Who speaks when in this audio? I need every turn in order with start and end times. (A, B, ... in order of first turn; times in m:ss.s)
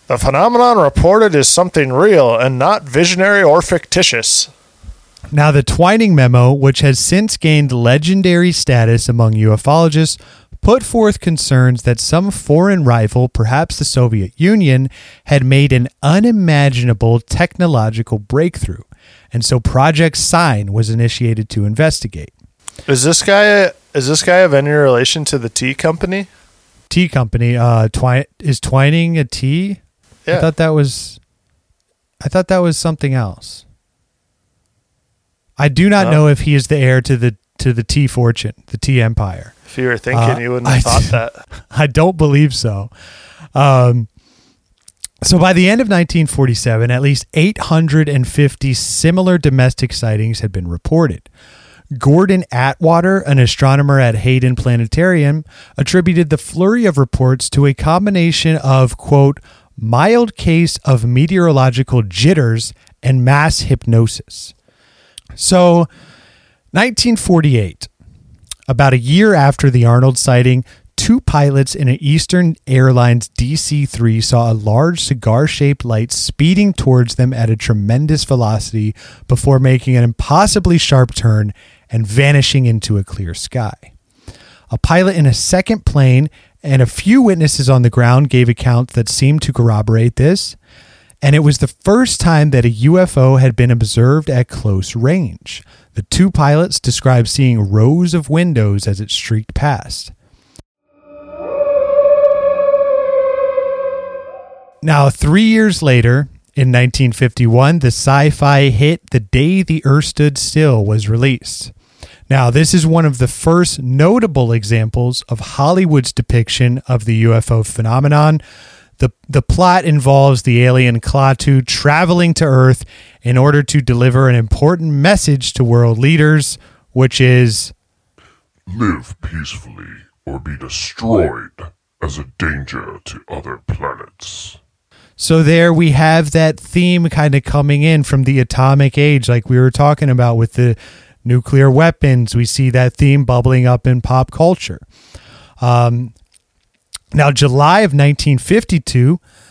0:00.1-0:04.5 A
0:05.3-0:22.3 B
0:22.9-0:26.3 A
0:26.9-0:31.2 B
0:32.2-0:33.6 B
0:35.6-0:39.5 B
0:39.7-0:41.4 A
0:40.1-0:41.1 B
0:41.7-0:42.9 B
0:43.5-0:44.1 B
0:45.2-0:51.3 B
0:51.9-1:04.5 B
1:05.4-1:05.9 B
1:06.7-1:07.9 B
1:08.7-1:23.9 B
1:24.7-1:30.6 B
1:31.2-1:40.1 B
1:44.8-1:51.7 B
1:52.3-1:58.4 B
1:59.0-2:07.7 B
2:08.7-2:14.6 C
2:15.2-2:24.8 B
2:25.6-2:26.1 B
2:27.1-2:29.2 B